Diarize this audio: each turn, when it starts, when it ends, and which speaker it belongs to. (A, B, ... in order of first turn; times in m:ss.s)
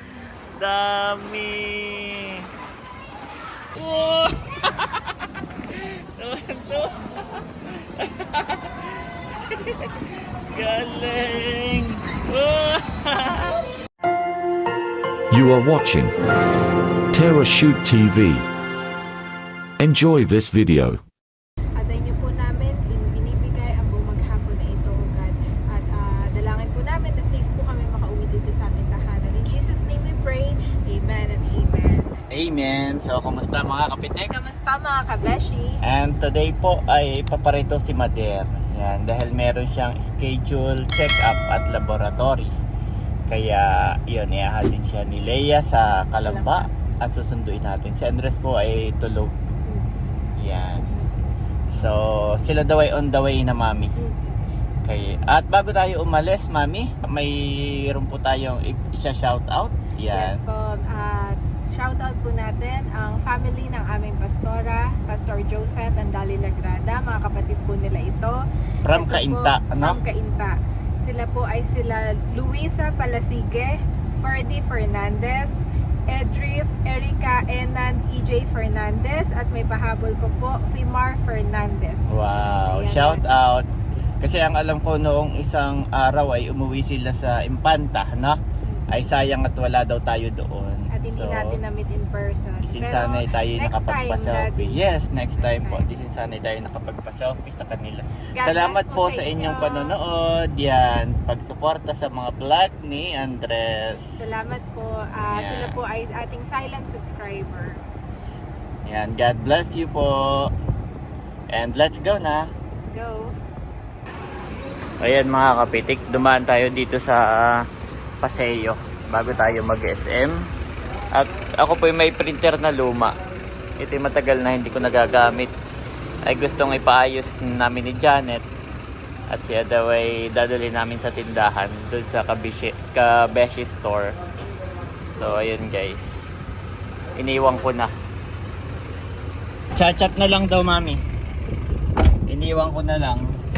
0:00.6-0:02.5 A
0:03.7-0:13.6 A
0:15.3-0:16.2 B
0:17.1-0:18.4 B
0:19.8-0:21.0 B
0:21.8-0:32.1 C
0:32.3-0:34.3 A
0:34.3-0:35.8 C
0:35.8-0:42.5 A
0:43.3-0:49.3 A
0:46.2-0:46.7 C
0:50.4-0:50.9 A
0:51.7-0:53.9 A
0:54.8-1:00.4 A
1:00.1-1:08.3 C
1:08.8-1:10.0 A
1:08.9-1:15.6 C
1:16.1-1:23.3 C
1:22.1-1:23.6 A
1:24.2-1:28.4 A
1:28.9-1:31.6 A
1:30.9-1:34.8 C
1:32.6-1:44.0 A
1:35.4-1:35.8 C
1:38.3-1:40.0 C
1:44.2-1:47.8 C
1:45.3-1:45.8 A
1:48.9-1:50.5 A
1:51.5-1:52.5 A
1:52.8-1:53.3 C
1:55.0-1:57.6 A
1:58.2-2:00.4 A
2:01.1-2:03.1 A
2:03.8-2:05.5 A
2:06.2-2:08.4 A
2:09.3-2:14.1 A
2:15.1-2:16.3 A
2:17.2-2:17.9 A
2:19.7-2:21.0 A
2:22.3-2:23.2 A